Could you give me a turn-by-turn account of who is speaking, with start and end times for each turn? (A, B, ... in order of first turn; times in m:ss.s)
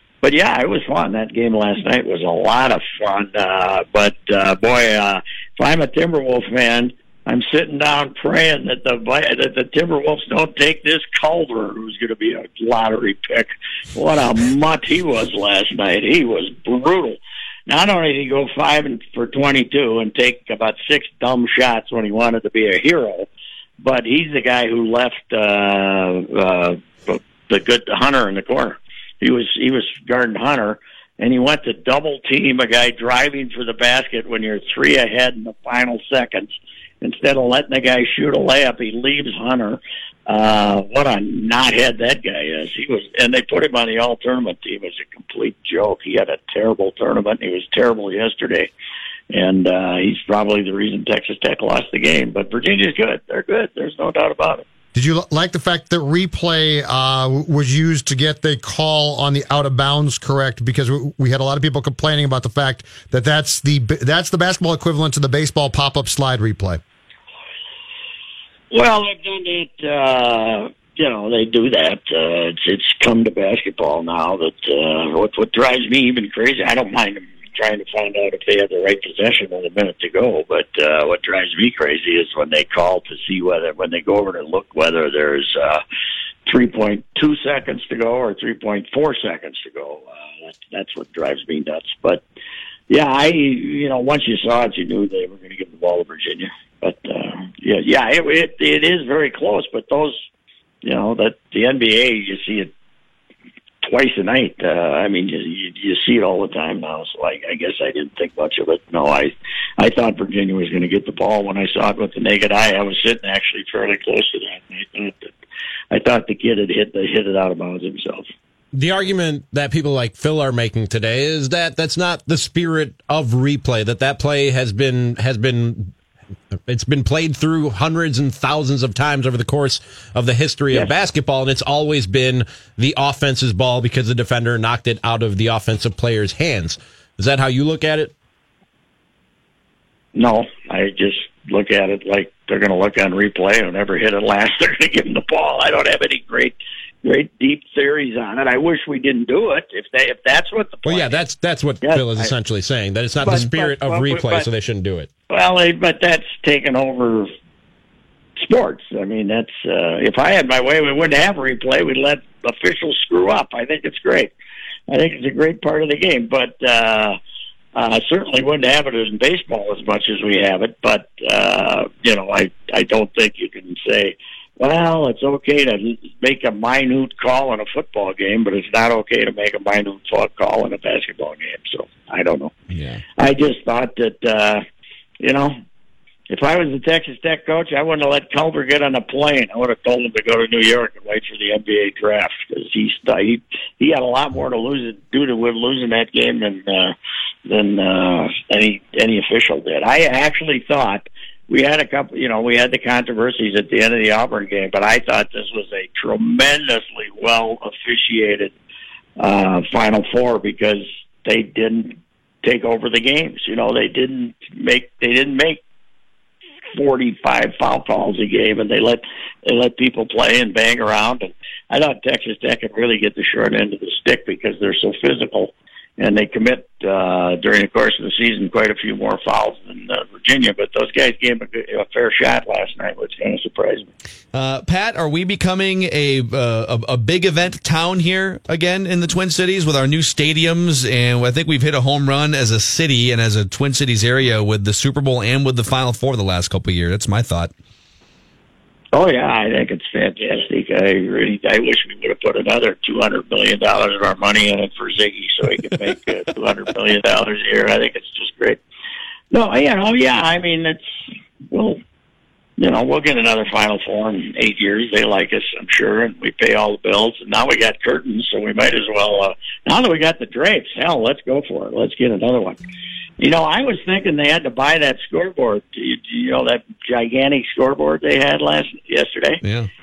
0:00.2-0:23.3 A
0:23.8-0:48.7 A
0:49.3-0:54.6 A
0:54.9-1:06.8 B
1:08.7-1:25.8 A
1:26.5-1:32.2 A
1:32.9-1:40.2 A
1:40.8-1:42.7 A
1:43.8-1:55.3 A
1:55.9-1:58.3 A
1:58.7-2:05.9 C
2:06.7-2:18.1 C
2:20.1-2:31.2 A
2:30.8-2:35.1 C
2:31.8-2:32.3 A
2:33.2-2:34.5 A
2:35.3-2:37.3 A
2:38.4-2:44.3 A
2:44.9-2:47.2 A
2:47.7-3:02.5 A
3:02.7-3:03.0 D
3:03.2-3:04.6 A
3:05.2-3:05.6 A
3:06.3-3:17.0 A
3:17.5-3:28.5 A
3:29.2-3:35.6 A
3:36.8-3:53.9 A
3:54.3-4:07.5 D
4:08.9-4:18.6 A
4:19.3-4:21.8 A
4:22.6-4:32.6 A
4:33.2-4:39.4 A
4:39.4-4:39.7 D